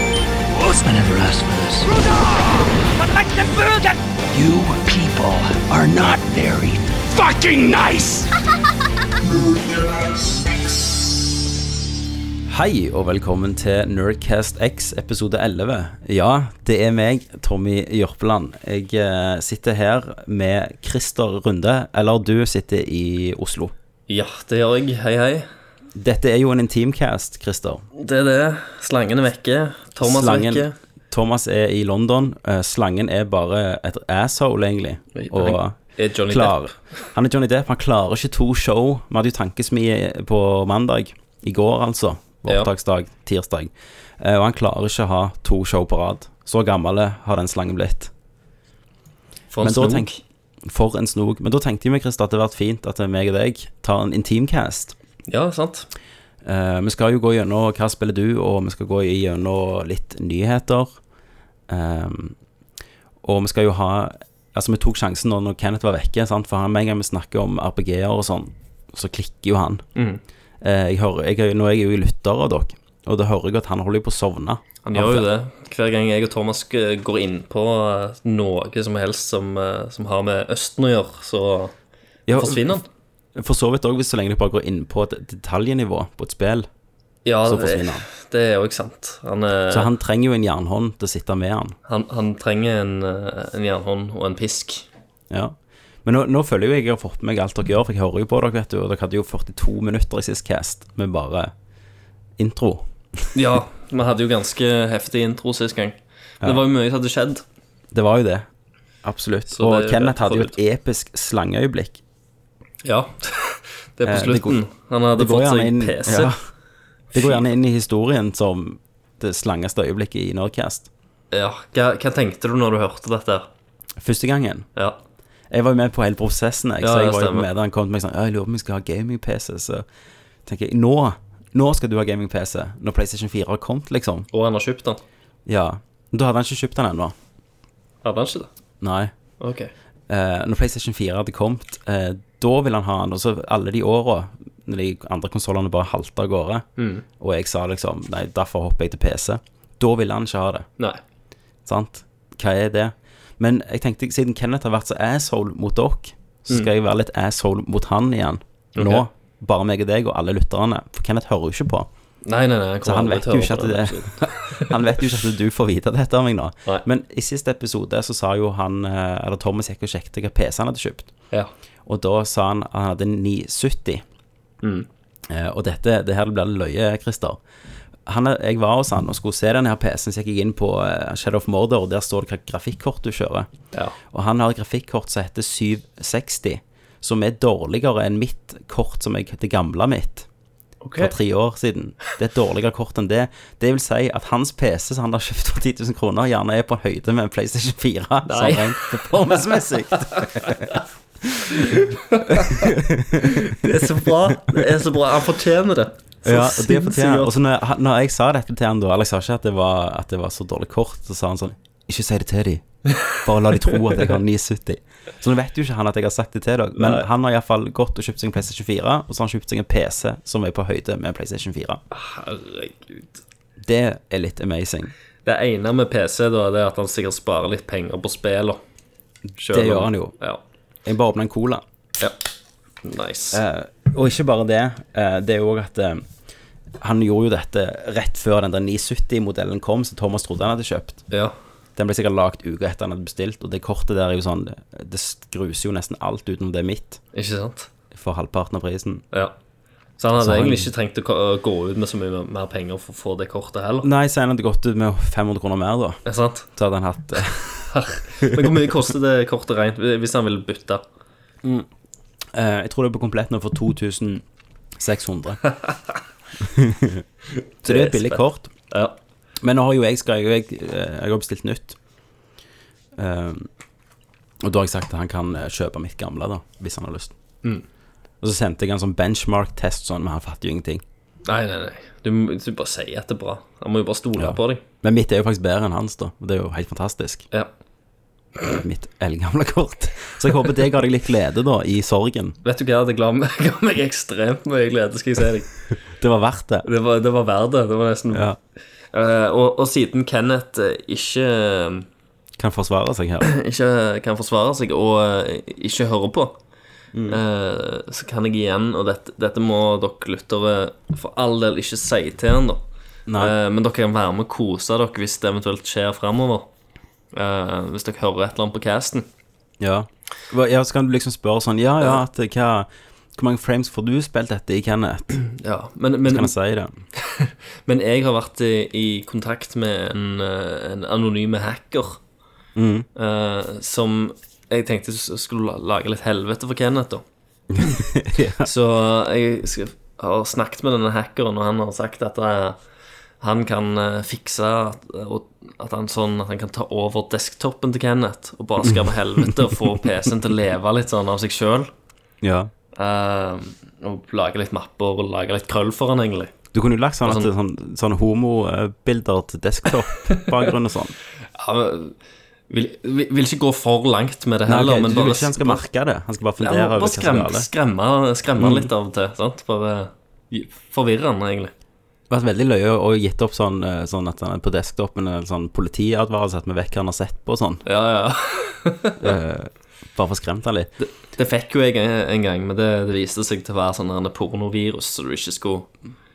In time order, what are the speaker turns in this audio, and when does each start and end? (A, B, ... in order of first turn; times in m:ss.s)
0:00.5-0:08.3 A
0:12.5-0:23.7 B
0:24.1-0:25.5 C
0:25.9-0:27.8 B
0:27.9-0:30.7 C
0:30.0-0:48.1 B
0:35.1-0:36.8 C
0:49.5-0:50.2 C
0:49.6-0:50.1 B
0:50.6-0:55.0 B
0:55.3-0:55.9 C
0:56.4-1:01.0 B
1:01.7-1:02.4 B
1:03.2-1:09.8 B
1:10.0-1:10.2 C
1:10.6-1:15.2 B
1:14.8-1:21.7 C
1:22.3-1:22.7 B
1:22.3-1:22.8 C
1:23.3-1:26.7 B
1:27.2-1:29.9 C
1:27.4-1:28.0 B
1:29.7-1:31.8 B
1:31.8-1:34.8 C
1:35.3-1:41.5 B
1:42.4-1:43.3 B
1:43.3-1:47.4 C
1:47.9-1:48.4 B
1:49.0-1:52.0 B
1:49.5-1:50.5 C
1:52.8-1:56.4 C
1:54.0-1:54.6 B
1:55.1-1:56.4 B
1:57.1-2:00.9 B
2:01.3-2:03.5 C
2:04.0-2:04.7 B
2:05.5-2:09.8 B
2:06.8-2:07.5 C
2:10.4-2:14.3 B
2:14.3-2:15.0 C
2:15.4-2:17.1 B
2:18.0-2:18.5 C
2:18.8-2:19.1 B
2:19.4-2:19.7 C
2:20.1-2:26.6 B
2:26.8-2:27.0 C
2:27.2-2:30.7 B
2:31.6-2:41.9 B
2:38.8-2:39.0 C
2:42.2-2:45.0 C
2:42.8-2:51.1 B
2:51.8-2:54.0 B
2:54.6-2:54.9 C
2:55.3-2:57.4 B
2:58.0-3:03.5 B
3:04.1-3:10.3 B
3:10.8-3:11.1 C
3:11.0-3:24.7 B
3:18.2-3:20.8 C
3:21.4-3:27.3 C
3:26.2-3:41.8 B
3:36.8-3:37.0 C
3:41.9-3:43.2 C
3:43.6-3:44.9 B
3:45.2-3:48.6 C
3:49.4-3:50.1 B
3:49.4-3:50.4 C
3:50.8-3:51.6 B
3:52.8-3:53.4 C
3:53.3-3:56.0 B
3:56.8-4:01.0 B
4:01.8-4:07.0 B
4:07.1-4:07.7 C
4:07.9-4:09.0 B
4:10.0-4:13.9 C
4:10.2-4:10.7 B
4:13.8-4:16.0 B
4:16.0-4:16.5 C
4:16.5-4:18.7 B
4:17.7-4:20.8 C
4:21.4-4:21.7 B
4:22.3-4:24.2 B
4:24.8-4:25.4 B
4:26.4-4:27.0 B
4:27.6-4:28.5 B
4:27.6-4:29.0 C
4:29.4-4:31.8 B
4:33.0-4:33.5 B
4:34.4-4:37.1 B
4:38.2-4:40.8 B
4:41.2-4:44.6 C
4:44.2-4:47.2 B
4:48.4-4:52.4 B
4:52.4-4:55.5 C
4:55.7-4:56.6 B
4:56.6-4:58.3 C
4:58.1-4:58.4 B
4:58.9-5:01.9 C
5:02.4-5:03.3 B
5:03.2-5:06.4 C
5:06.9-5:07.2 B
5:07.1-5:12.6 C
5:13.1-5:13.3 B
5:13.2-5:16.5 C
5:17.1-5:19.0 C
5:19.6-5:25.2 B
5:25.2-5:26.3 C
5:26.1-5:26.8 B
5:26.9-5:32.0 C
5:32.6-5:32.9 B
5:32.9-5:37.0 C
5:37.5-5:38.5 B
5:37.6-5:37.9 C
5:38.4-5:42.6 C
5:43.2-5:51.7 C
5:48.6-5:49.8 B
5:52.2-5:52.5 B
5:52.7-5:56.3 C
5:56.5-6:00.9 B
6:01.3-6:02.0 C
6:02.5-6:05.6 C
6:04.5-6:07.5 B
6:06.4-6:11.5 C
6:08.4-6:08.7 B
6:12.1-6:17.6 B
6:17.6-6:19.1 C
6:19.0-6:20.7 B
6:20.8-6:25.7 C